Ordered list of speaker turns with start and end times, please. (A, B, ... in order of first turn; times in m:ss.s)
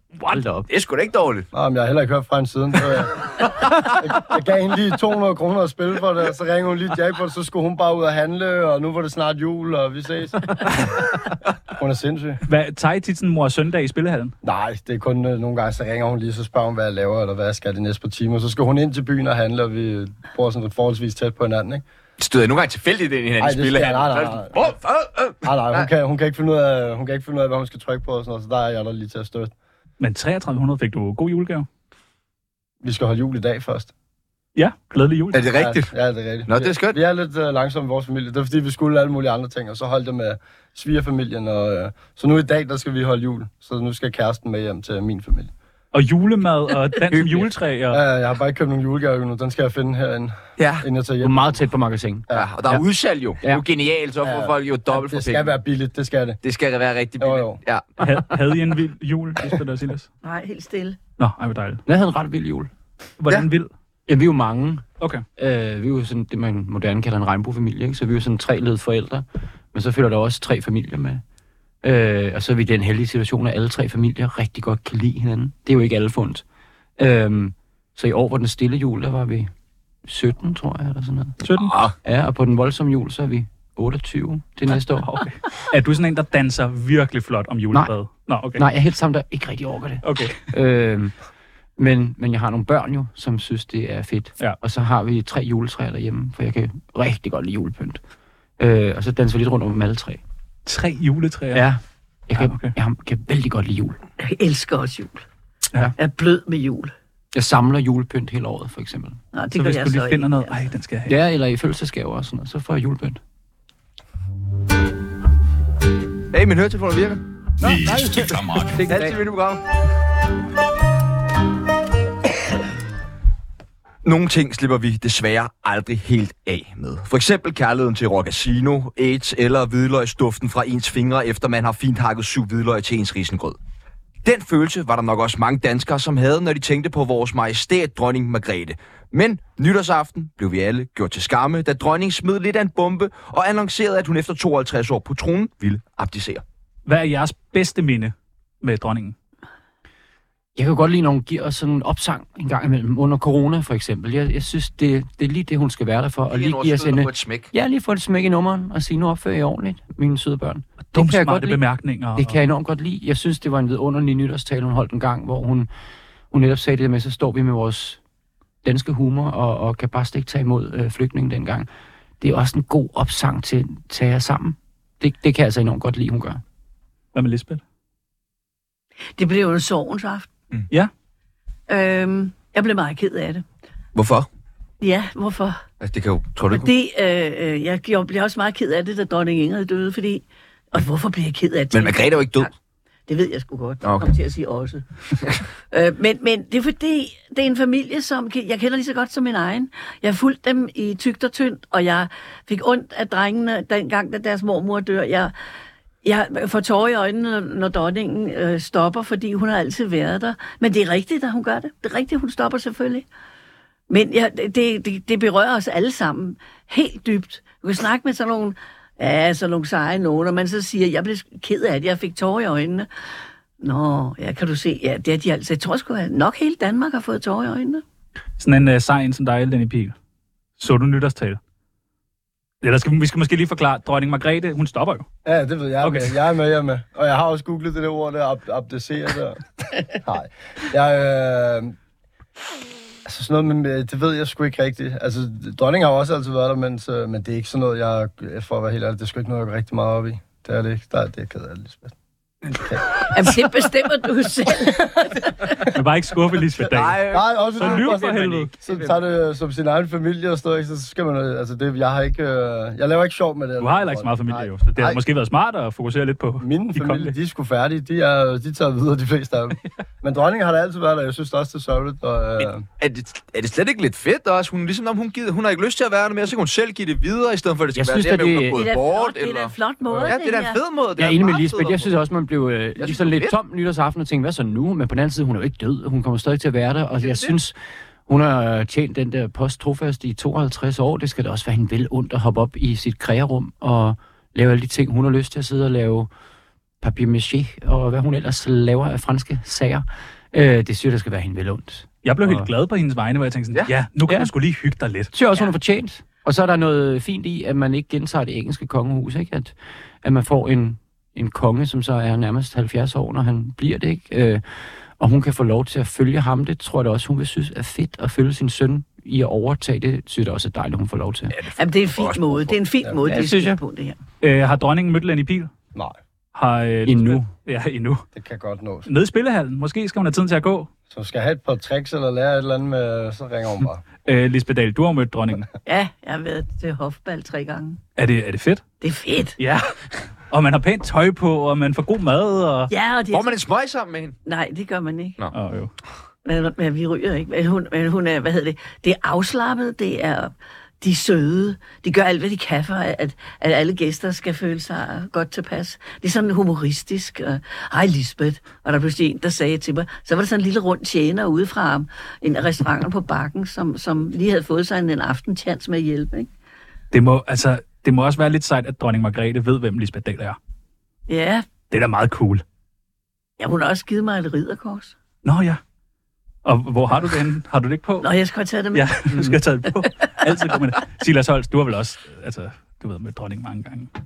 0:00.3-0:00.7 A
0:00.7-0:01.5 B
0:01.5-0:12.4 C
0:03.7-0:04.0 B
0:12.5-0:14.3 D
0:14.4-0:21.8 C
0:22.2-0:25.9 B
0:23.4-0:24.6 C
0:25.4-0:29.5 C
0:30.0-0:31.7 D
0:32.8-0:33.9 C
0:34.6-0:35.5 D
0:35.3-0:35.9 B
0:35.5-0:45.5 C
0:36.5-0:37.0 B
0:45.9-0:48.0 D
0:47.1-0:47.5 A
0:47.9-0:51.5 C
0:50.6-0:50.9 B
0:51.2-0:52.8 A
0:52.3-0:55.5 B
0:54.2-0:56.4 C
0:56.4-0:57.9 B
0:57.2-0:57.6 C
0:58.0-1:00.1 D
1:00.2-1:01.0 E
1:01.2-1:01.8 D
1:01.9-1:02.7 A
1:03.2-1:03.7 D
1:04.1-1:04.9 A
1:05.4-1:11.2 A
1:11.8-1:16.4 A
1:17.0-1:19.5 A
1:20.0-1:21.4 A
1:21.4-1:21.8 D
1:21.5-1:21.9 B
1:22.0-1:25.2 A
1:25.0-1:28.6 D
1:28.6-1:31.1 A
1:30.0-1:30.4 D
1:31.8-1:38.0 A
1:38.6-1:40.2 A
1:40.7-1:41.7 D
1:41.5-1:44.0 A
1:42.4-1:42.7 D
1:44.2-1:45.2 E
1:46.0-1:46.9 E
1:47.3-1:49.2 A
1:49.3-1:50.6 E
1:49.6-1:51.2 D
1:51.1-1:53.2 A
1:56.3-1:59.6 B
1:57.6-1:59.2 A
2:04.0-2:13.6 B
2:14.2-2:26.4 B
2:26.9-2:29.2 D
2:30.6-2:41.6 A
2:36.3-2:37.5 B
2:40.9-2:42.4 D
2:42.2-2:45.7 A
2:46.3-2:48.0 A
2:48.6-2:51.7 A
2:52.2-2:56.4 A
2:57.1-2:57.6 D
2:59.2-3:00.3 E
3:01.7-3:03.4 E
3:04.0-3:04.3 B
3:04.8-3:05.6 E
3:05.8-3:06.7 B
3:06.5-3:12.5 E
3:11.7-3:12.5 B
3:13.1-3:14.8 E
3:13.8-3:14.1 B
3:15.7-3:25.3 E
3:26.0-3:33.1 E
3:33.9-3:42.9 E
3:43.6-3:47.8 E
3:48.4-3:50.0 D
3:50.6-3:51.4 D
3:52.6-3:55.0 D
3:55.3-4:01.8 C
3:55.8-3:56.2 D
4:03.1-4:11.9 C
4:12.6-4:13.1 C
4:13.1-4:15.3 E
4:14.5-4:15.6 C
4:15.7-4:17.1 D
4:16.7-4:17.9 B
4:17.1-4:25.0 C
4:17.6-4:18.5 D
4:23.6-4:27.2 D
4:26.4-4:32.7 C
4:32.4-4:41.9 B
4:37.8-4:38.6 A
4:38.5-4:40.6 E
4:41.0-4:47.6 A
4:42.8-4:43.4 B
4:48.1-4:56.1 A
4:56.8-5:02.5 A
5:02.0-5:05.1 D
5:04.1-5:04.3 A
5:05.1-5:14.4 A
5:15.0-5:21.4 A
5:21.3-5:22.6 B
5:21.6-5:24.0 E
5:23.0-5:23.6 A
5:24.2-5:25.5 D
5:26.4-5:28.1 D
5:26.9-5:27.3 A
5:28.2-5:28.9 C
5:28.9-5:30.7 D
5:30.9-5:33.8 C
5:34.1-5:35.5 D
5:35.7-5:37.8 E
5:38.0-5:38.6 D
5:38.8-5:39.4 E
5:39.4-5:39.8 D
5:40.3-5:42.7 D
5:42.7-5:43.4 E
5:43.1-5:44.2 B
5:44.3-5:45.2 E
5:45.3-5:45.7 D
5:46.2-6:06.3 E
6:06.9-6:10.4 D
6:11.1-6:11.5 E
6:11.7-6:12.4 D
6:13.4-6:15.0 E
6:15.2-6:15.6 D
6:16.4-6:18.1 D
6:18.0-6:19.1 E
6:18.7-6:23.9 D
6:19.1-6:19.4 A